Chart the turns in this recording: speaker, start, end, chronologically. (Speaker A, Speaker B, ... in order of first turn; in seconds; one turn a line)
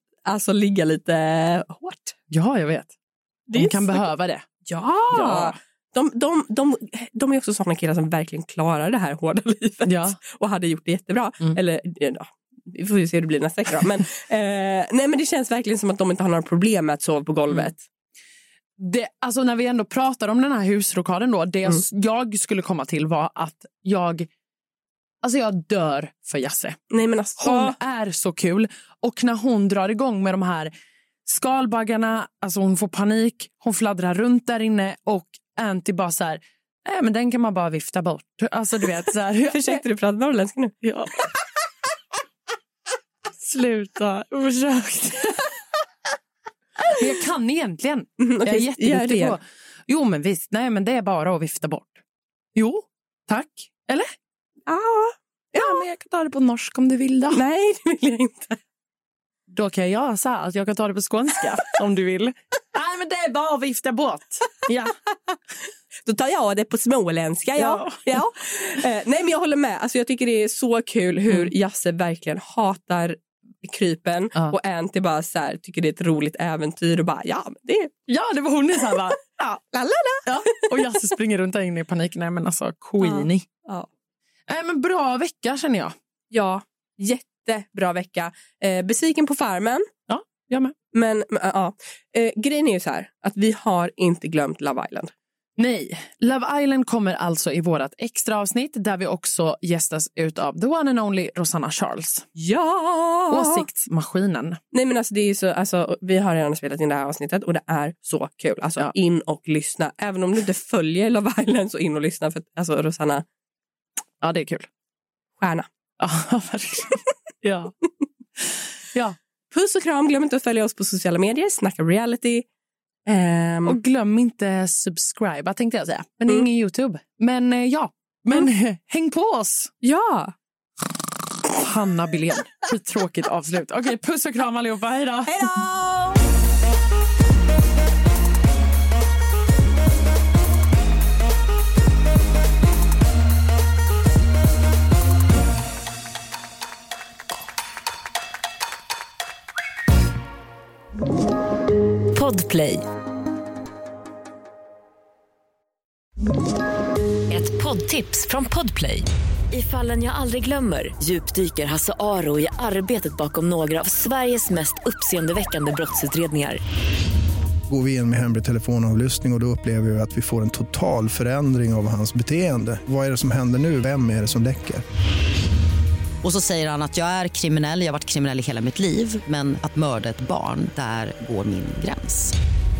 Speaker A: 0.2-2.1
Speaker B: 2.3-2.9
Speaker A: 3.5-4.1
Speaker B: 3.5-5.6
Speaker A: 4.7-17.8
Speaker B: 9.8-10.2
Speaker B: 18.8-24.3
Speaker B: 25.2-26.8
Speaker A: 26.9-27.8
Speaker B: 27.4-30.7
Speaker B: 31.2-39.8
Speaker A: 39.5-41.2
Speaker B: 40.8-41.2
Speaker B: 43.3-45.5
Speaker B: 46.9-52.0
Speaker A: 48.2-49.4
Speaker B: 52.5-54.1
Speaker A: 54.7-55.8
Speaker B: 55.5-57.4
Speaker A: 57.3-58.6
Speaker B: 59.5-65.0
Speaker A: 66.0-77.9
Speaker B: 67.6-68.2
Speaker B: 78.1-79.2
Speaker A: 79.3-80.9
Speaker B: 80.2-83.5
Speaker A: 83.0-83.9
Speaker B: 84.5-85.9
Speaker A: 86.3-89.9
Speaker B: 90.1-90.7
Speaker A: 90.9-95.1
Speaker B: 95.6-102.3
Speaker A: 102.3-103.7
Speaker B: 103.3-104.6
Speaker A: 104.7-113.2
Speaker B: 114.2-114.7
Speaker A: 115.4-115.7
Speaker B: 116.0-117.7
Speaker B: 118.4-119.2
Speaker A: 119.5-122.4
Speaker A: 123.0-123.8
Speaker B: 123.6-129.7
Speaker A: 129.8-130.3
Speaker B: 131.4-135.5
Speaker A: 135.3-136.2
Speaker C: 152.1-152.8
Speaker C: 157.3-166.6
Speaker D: 167.7-174.8
Speaker E: 176.2-182.3